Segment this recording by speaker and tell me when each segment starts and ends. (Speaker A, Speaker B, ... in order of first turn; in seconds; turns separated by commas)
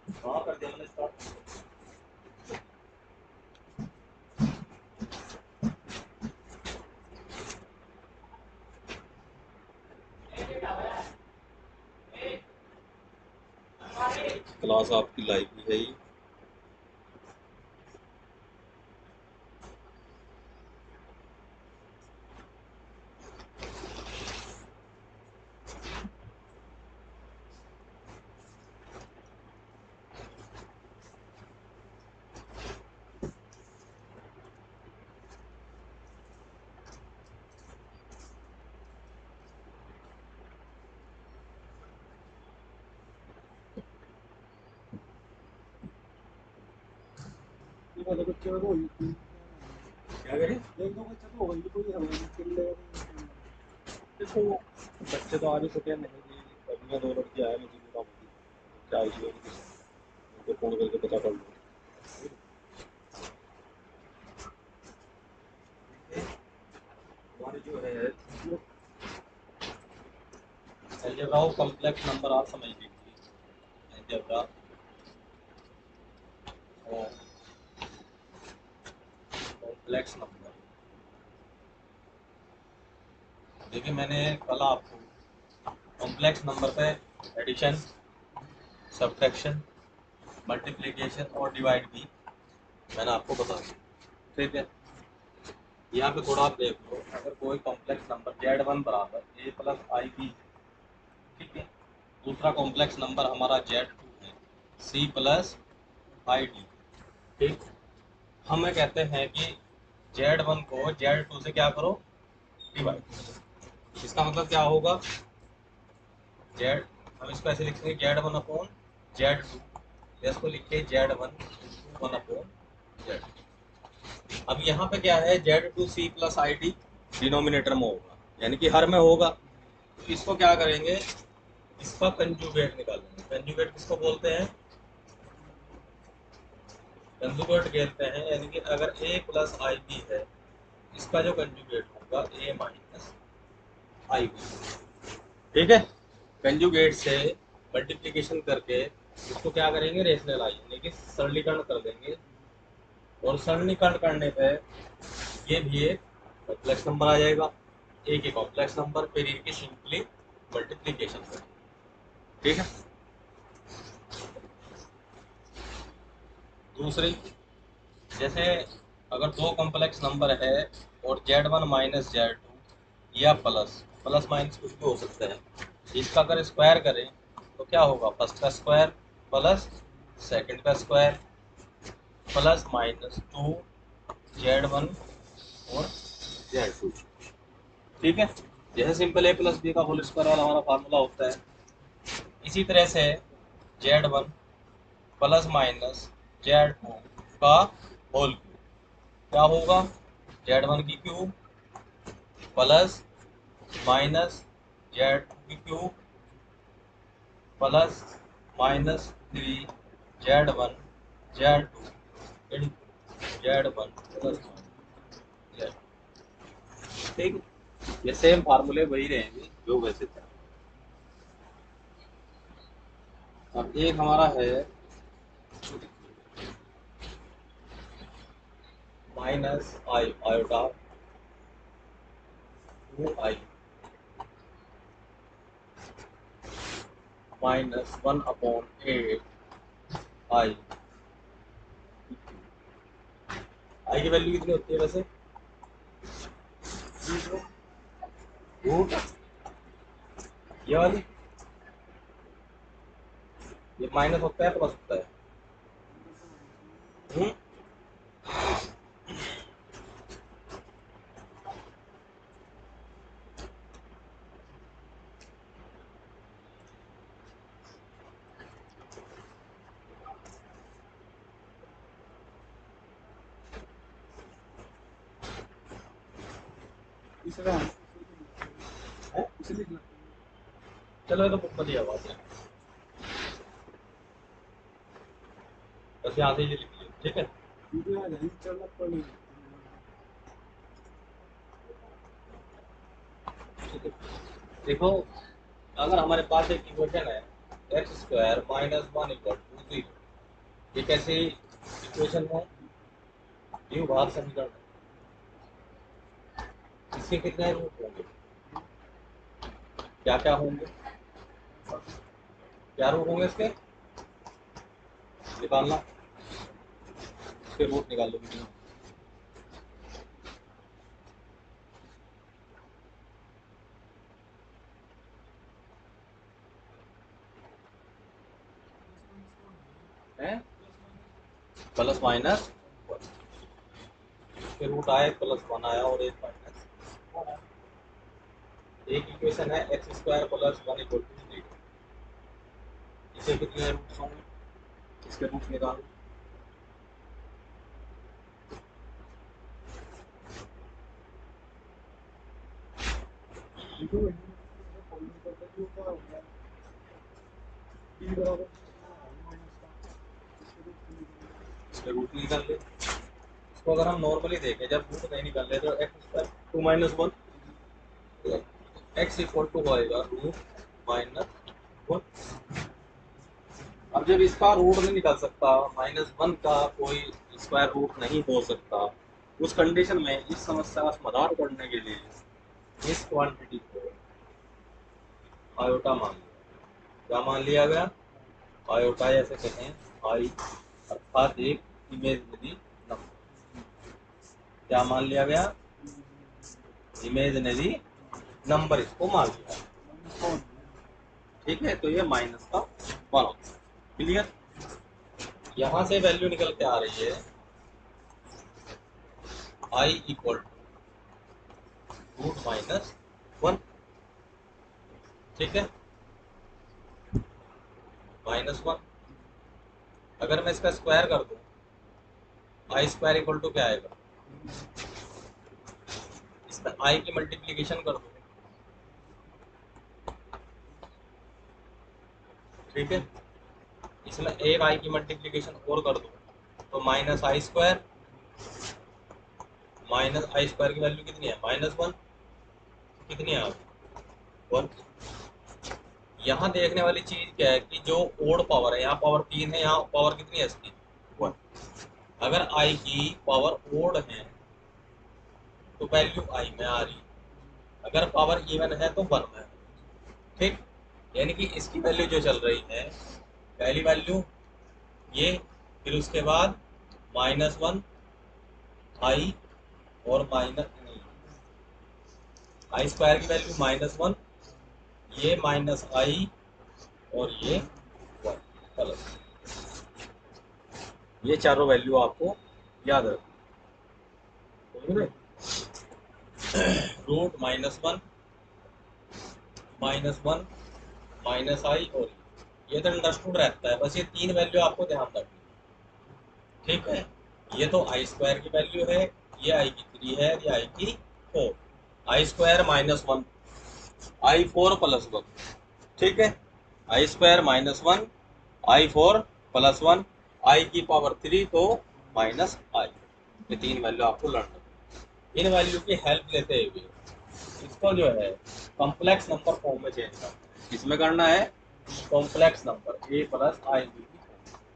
Speaker A: 0.2-1.2, Speaker A: 14.1-16.0, Speaker B: 47.9-50.0, Speaker A: 50.2-50.6, Speaker B: 50.7-53.5, Speaker A: 54.2-58.3, Speaker A: 58.9-59.7, Speaker A: 60.3-61.5, Speaker A: 65.9-66.3, Speaker A: 67.4-68.2, Speaker B: 68.3-68.6, Speaker A: 71.0-73.2, Speaker A: 73.9-74.5, Speaker A: 76.8-77.1, Speaker A: 79.6-80.6, Speaker A: 83.7-85.1, Speaker A: 86.0-87.8, Speaker A: 88.9-89.6, Speaker A: 90.5-92.1, Speaker A: 92.9-93.8, Speaker A: 94.3-94.7, Speaker A: 95.9-100.4, Speaker A: 101.3-101.7, Speaker A: 102.2-105.6, Speaker A: 106.2-106.7, Speaker A: 108.5-109.6, Speaker A: 110.1-112.0, Speaker A: 112.7-113.2, Speaker A: 114.0-115.0, Speaker A: 116.5-119.7, Speaker A: 120.2-122.5, Speaker A: 124.5-129.3, Speaker A: 130.0-131.0, Speaker A: 131.8-134.5, Speaker B: 135.4-135.8, Speaker A: 137.2-140.3, Speaker A: 140.9-143.1, Speaker A: 144.1-144.6, Speaker A: 145.5-145.9, Speaker A: 146.4-152.2, Speaker A: 153.2-154.6, Speaker A: 155.4-157.5, Speaker A: 158.1-161.5, Speaker A: 162.4-162.7, Speaker A: 166.7-167.3, Speaker A: 168.2-172.6, Speaker A: 173.1-175.4, Speaker A: 175.9-181.2, Speaker A: 182.3-183.6, Speaker A: 184.3-185.0, Speaker A: 185.7-187.0, Speaker A: 188.0-191.4, Speaker A: 192.4-193.2, Speaker A: 193.8-194.3, Speaker A: 195.2-198.6, Speaker A: 199.3-199.9, Speaker A: 200.4-201.3, Speaker A: 202.6-203.0, Speaker A: 203.8-205.9, Speaker A: 207.6-209.7, Speaker A: 210.2-210.8, Speaker A: 211.3-211.9, Speaker A: 212.5-212.8, Speaker A: 213.4-214.6, Speaker B: 214.2-215.1, Speaker A: 217.0-217.4, Speaker A: 218.0-220.3, Speaker A: 223.5-224.7, Speaker A: 229.1-230.7, Speaker A: 232.9-233.4, Speaker A: 237.4-239.2, Speaker A: 240.3-240.6, Speaker A: 243.9-245.1, Speaker B: 247.0-247.4, Speaker A: 248.6-249.0, Speaker A: 250.7-251.0, Speaker A: 253.8-255.1, Speaker B: 255.9-257.2, Speaker A: 257.1-257.4, Speaker B: 277.2-278.8, Speaker B: 279.4-280.2, Speaker A: 281.1-282.3, Speaker A: 286.0-287.3, Speaker B: 287.7-289.9, Speaker A: 294.6-295.1, Speaker A: 295.8-299.9, Speaker A: 300.7-302.5, Speaker A: 303.7-304.6, Speaker A: 306.9-308.1, Speaker A: 310.0-310.7, Speaker B: 311.5-312.0, Speaker A: 312.8-313.5, Speaker A: 315.4-315.8, Speaker A: 317.4-318.6, Speaker B: 328.8-331.2, Speaker A: 330.2-330.4, Speaker A: 331.8-333.0, Speaker A: 334.6-336.7, Speaker B: 337.1-337.4, Speaker A: 338.9-341.5, Speaker A: 343.1-344.2, Speaker A: 345.0-345.9, Speaker B: 353.8-356.3, Speaker B: 357.9-359.8, Speaker B: 360.4-361.5, Speaker A: 361.7-362.6, Speaker A: 363.5-367.1, Speaker A: 368.2-371.3, Speaker A: 373.9-382.1, Speaker A: 382.8-384.0, Speaker A: 385.6-386.3, Speaker A: 387.1-387.9, Speaker A: 388.7-390.3, Speaker A: 390.9-393.1, Speaker A: 394.7-395.5, Speaker B: 395.8-396.7, Speaker A: 397.0-397.8, Speaker A: 398.4-399.6, Speaker B: 399.8-400.9, Speaker A: 401.4-404.3, Speaker A: 405.6-407.2, Speaker A: 409.7-410.6, Speaker A: 412.2-413.6, Speaker A: 415.4-415.7, Speaker A: 418.2-418.8, Speaker A: 420.2-421.4, Speaker A: 422.7-423.9, Speaker B: 424.3-424.7, Speaker A: 426.5-428.2, Speaker B: 428.9-429.3, Speaker A: 432.7-433.1, Speaker A: 434.0-437.8, Speaker A: 439.9-441.9, Speaker A: 443.0-443.7, Speaker A: 446.2-451.4, Speaker A: 452.2-454.3, Speaker A: 455.8-457.0, Speaker A: 457.8-459.6, Speaker A: 460.4-460.6, Speaker A: 461.1-462.9, Speaker A: 463.6-464.3, Speaker A: 465.1-466.6, Speaker A: 467.1-467.8, Speaker A: 469.0-469.4, Speaker A: 470.0-471.0, Speaker A: 472.7-474.2, Speaker A: 475.1-476.3, Speaker A: 477.1-477.7, Speaker A: 478.2-479.1, Speaker A: 481.2-483.2, Speaker A: 484.7-485.1, Speaker A: 486.5-488.0, Speaker A: 489.8-490.5, Speaker A: 491.2-495.4, Speaker A: 496.6-503.3, Speaker A: 504.2-505.3, Speaker A: 506.0-506.4, Speaker A: 506.9-508.1, Speaker A: 508.6-514.7, Speaker A: 515.3-516.9, Speaker A: 517.5-524.3